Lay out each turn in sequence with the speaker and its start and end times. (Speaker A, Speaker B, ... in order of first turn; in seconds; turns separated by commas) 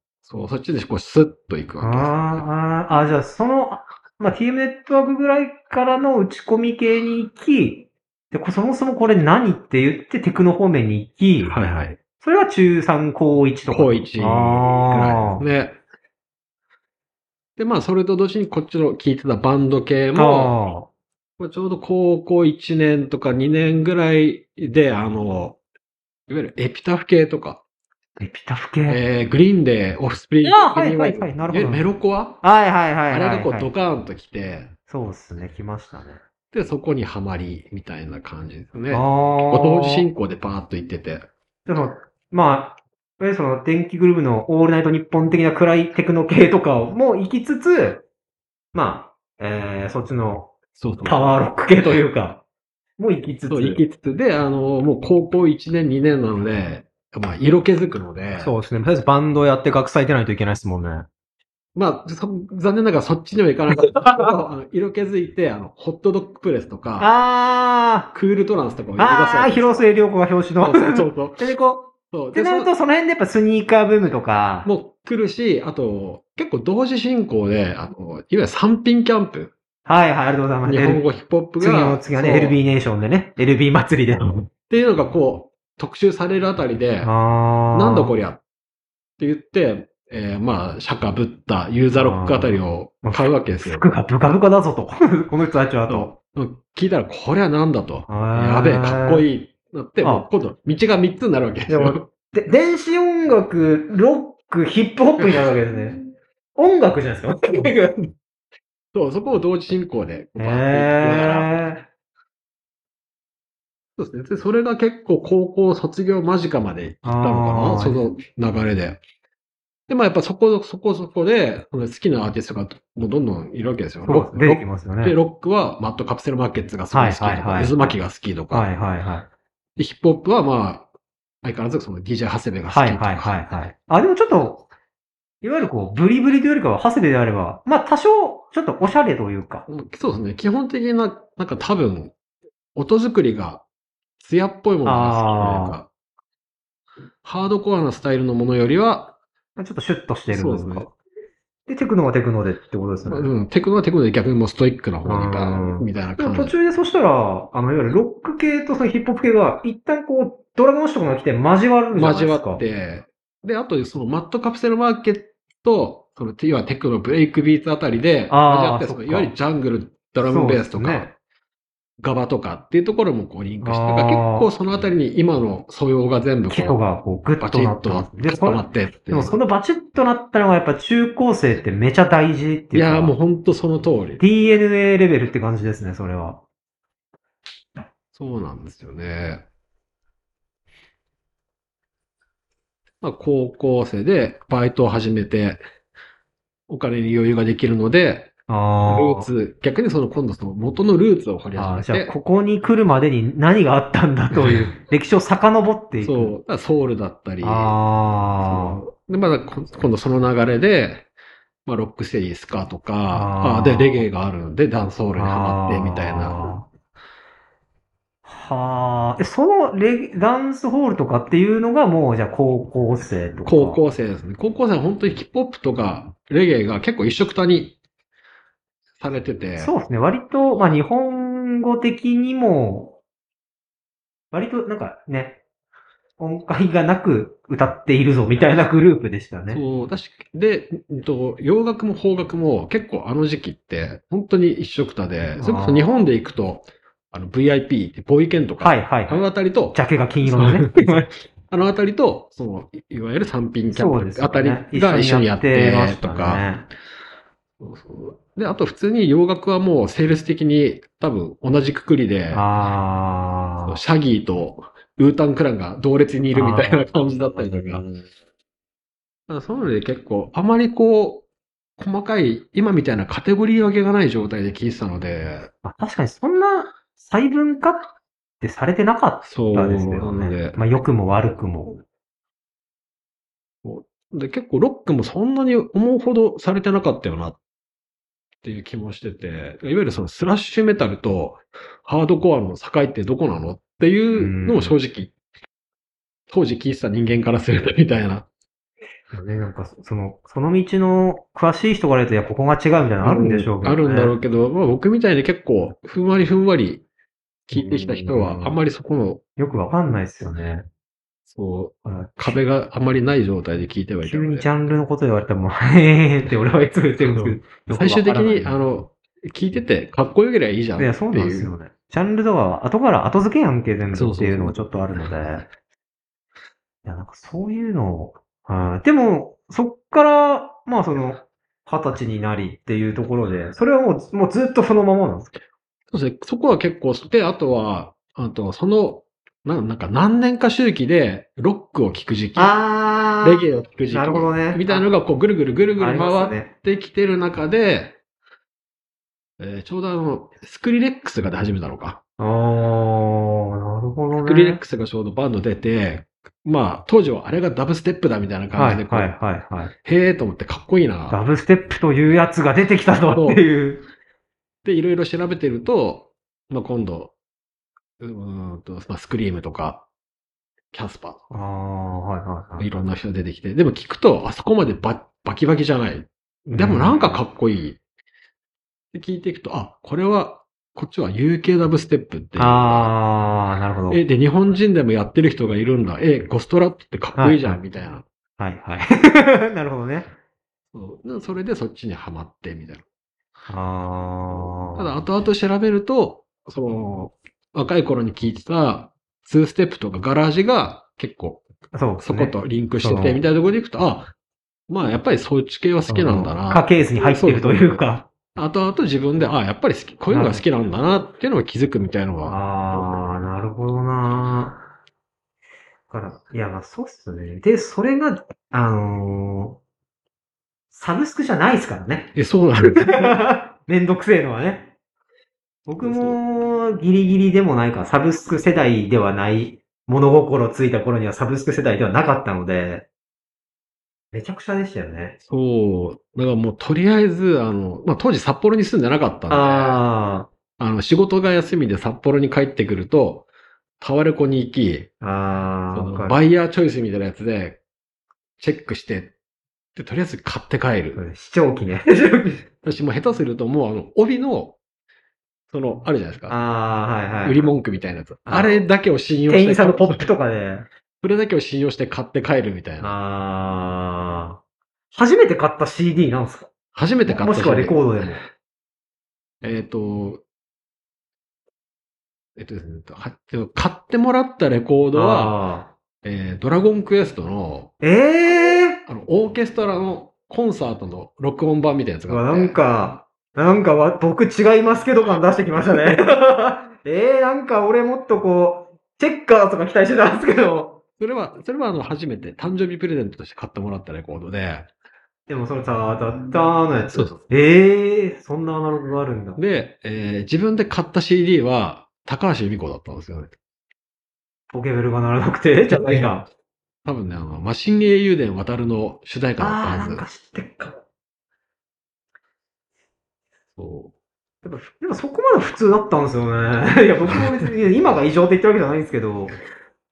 Speaker A: 0.2-2.5, Speaker B: 1.8-11.6, Speaker A: 11.4-12.0, Speaker B: 12.2-15.4, Speaker A: 13.7-15.8, Speaker A: 17.6-20.6, Speaker B: 20.1-20.9, Speaker A: 21.4-25.6, Speaker A: 26.3-27.6, Speaker B: 28.2-29.0, Speaker A: 28.9-32.4, Speaker B: 30.4-31.9, Speaker B: 32.4-33.7, Speaker A: 33.1-34.7, Speaker B: 34.9-36.2, Speaker A: 36.5-41.3, Speaker B: 38.9-40.1, Speaker B: 41.7-48.0, Speaker B: 48.7-50.5, Speaker A: 50.8-52.0, Speaker B: 51.0-52.4, Speaker B: 53.0-53.8, Speaker A: 53.5-58.5, Speaker B: 58.4-61.1, Speaker A: 61.8-67.1, Speaker B: 63.8-64.3, Speaker B: 67.0-68.1, Speaker A: 68.1-69.9, Speaker B: 69.0-74.7, Speaker A: 70.6-71.5, Speaker A: 72.1-72.7, Speaker A: 74.7-79.5, Speaker B: 79.9-81.0, Speaker A: 80.7-82.6, Speaker B: 81.6-84.5, Speaker A: 84.2-87.1, Speaker B: 87.0-88.2, Speaker A: 87.7-88.4, Speaker A: 89.2-93.9, Speaker B: 91.9-96.1, Speaker A: 95.9-102.0, Speaker B: 98.1-99.3, Speaker B: 101.7-106.0, Speaker B: 106.6-108.1, Speaker A: 108.9-111.5, Speaker B: 110.4-111.8, Speaker A: 114.0-119.0, Speaker B: 117.0-118.1, Speaker A: 119.9-128.7, Speaker B: 124.1-125.2, Speaker B: 126.9-128.0, Speaker B: 128.5-129.3, Speaker A: 129.8-130.9, Speaker A: 131.4-133.6, Speaker B: 132.7-134.7, Speaker B: 135.4-139.7, Speaker A: 139.7-142.1, Speaker A: 142.8-143.7, Speaker A: 144.2-145.9, Speaker B: 144.8-145.8, Speaker A: 147.2-149.2, Speaker B: 149.6-150.9, Speaker A: 150.3-150.9, Speaker B: 151.7-153.3, Speaker A: 153.1-156.6, Speaker B: 155.0-162.6, Speaker A: 161.9-171.2, Speaker B: 168.3-169.3, Speaker B: 170.2-171.1, Speaker A: 172.0-176.8, Speaker B: 173.6-174.5, Speaker B: 176.5-183.2, Speaker A: 177.4-179.4, Speaker A: 182.7-184.2, Speaker B: 184.2-186.4, Speaker A: 188.2-189.4, Speaker A: 193.0-195.6, Speaker A: 196.7-198.3, Speaker B: 198.5-199.3, Speaker A: 198.9-202.1, Speaker B: 201.6-206.3, Speaker A: 204.4-204.7, Speaker A: 206.0-207.8, Speaker B: 207.4-208.8, Speaker A: 208.4-211.1, Speaker A: 211.7-216.5, Speaker B: 213.1-214.1, Speaker B: 215.1-216.7, Speaker B: 218.2-223.8, Speaker A: 223.4-227.8, Speaker A: 229.0-229.7, Speaker B: 229.6-233.0, Speaker B: 234.3-235.4, Speaker B: 236.2-239.6, Speaker A: 239.5-256.5, Speaker B: 245.4-245.9, Speaker B: 248.6-251.1, Speaker B: 253.7-256.7, Speaker A: 257.6-262.4, Speaker B: 262.3-263.8, Speaker A: 263.6-267.9, Speaker B: 266.3-268.1, Speaker A: 269.3-271.3, Speaker A: 271.8-275.5, Speaker B: 275.6-277.9, Speaker B: 278.4-281.8, Speaker A: 279.2-280.6, Speaker A: 283.6-287.4, Speaker A: 288.4-295.1, Speaker B: 294.1-294.8, Speaker A: 296.3-298.3, Speaker B: 299.1-304.1, Speaker A: 303.0-306.8, Speaker A: 307.5-309.2, Speaker B: 307.5-308.6, Speaker B: 309.4-310.7, Speaker A: 311.3-314.5, Speaker B: 311.9-312.4, Speaker B: 314.0-318.6, Speaker A: 317.0-321.5, Speaker B: 320.8-325.5, Speaker A: 323.9-324.8, Speaker B: 326.8-335.3, Speaker A: 335.9-342.6, Speaker B: 342.4-344.9, Speaker A: 343.2-348.0, Speaker B: 345.8-346.5, Speaker A: 349.4-352.0, Speaker B: 352.2-354.6, Speaker A: 354.2-359.2, Speaker B: 358.6-359.7, Speaker A: 359.8-361.2, Speaker B: 361.1-363.8, Speaker A: 363.1-363.4, Speaker A: 364.6-367.1, Speaker A: 368.0-369.9, Speaker A: 370.7-371.2, Speaker B: 371.3-372.7, Speaker A: 372.6-377.8, Speaker B: 376.5-377.2, Speaker A: 378.9-382.9, Speaker B: 382.4-384.0, Speaker A: 383.9-388.1, Speaker B: 387.2-387.6, Speaker B: 388.4-390.1, Speaker A: 390.7-392.8, Speaker B: 393.5-395.0, Speaker A: 394.7-401.4, Speaker B: 401.7-403.2, Speaker A: 402.0-404.1, Speaker A: 404.7-407.8, Speaker B: 405.9-408.1, Speaker A: 408.3-412.8, Speaker B: 410.1-410.4, Speaker B: 412.2-414.6, Speaker B: 415.9-419.6, Speaker B: 420.7-424.7, Speaker A: 422.1-423.2, Speaker B: 425.7-432.9, Speaker A: 425.8-426.2, Speaker B: 434.1-435.2, Speaker A: 435.3-439.8, Speaker B: 439.3-440.3, Speaker A: 440.6-443.3, Speaker A: 443.8-444.9, Speaker B: 445.0-446.2, Speaker A: 445.7-447.6, Speaker A: 448.4-449.1, Speaker A: 449.8-451.0, Speaker B: 450.9-452.4, Speaker A: 452.6-454.6, Speaker A: 455.5-456.4, Speaker B: 456.3-457.5, Speaker A: 457.2-460.1, Speaker B: 458.3-458.7, Speaker B: 459.3-460.7, Speaker A: 461.0-462.9, Speaker B: 462.8-464.4, Speaker B: 464.9-466.5, Speaker A: 466.7-467.8, Speaker B: 467.1-468.2, Speaker A: 469.4-470.2, Speaker A: 472.4-475.3, Speaker B: 474.9-475.8, Speaker A: 476.0-477.7, Speaker B: 477.8-478.8, Speaker A: 478.5-482.6, Speaker B: 482.1-490.8, Speaker A: 491.0-494.7, Speaker B: 495.3-499.4, Speaker A: 496.9-497.2, Speaker A: 499.4-503.3, Speaker B: 504.5-506.3, Speaker A: 505.7-506.1, Speaker A: 506.8-510.0, Speaker B: 509.4-510.8, Speaker A: 513.6-513.9, Speaker B: 514.4-519.4